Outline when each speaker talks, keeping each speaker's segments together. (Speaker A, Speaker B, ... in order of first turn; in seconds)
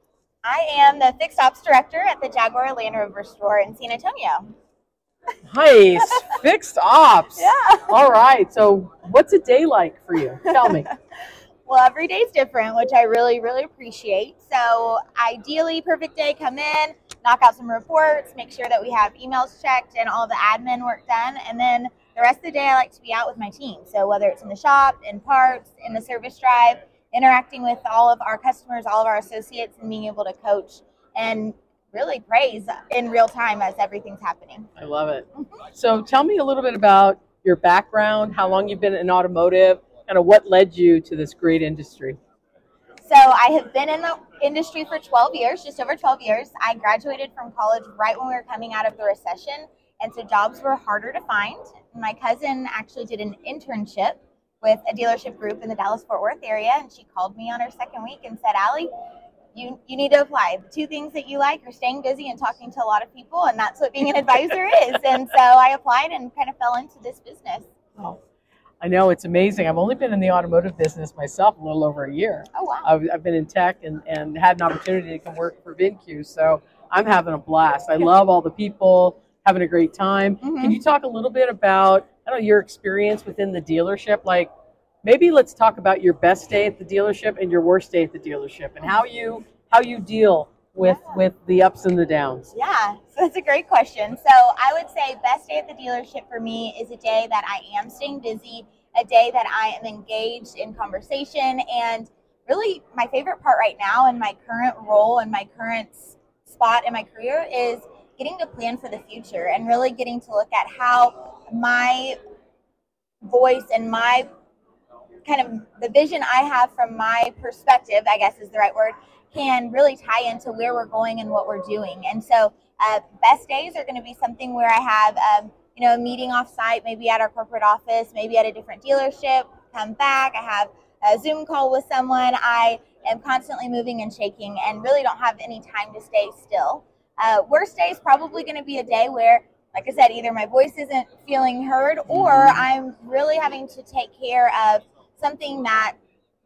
Speaker A: 0.4-4.5, 6.0-6.3, 7.4-8.0, 10.4-10.9, 11.7-34.7, 43.0-58.9, 59.5-67.7, 72.5-72.9, 80.4-80.8, 90.8-91.2, 92.5-112.2, 113.2-114.3, 115.2-146.0
Speaker B: 5.5-10.9, 34.8-42.2, 68.8-84.5, 85.0-92.5, 142.1-142.6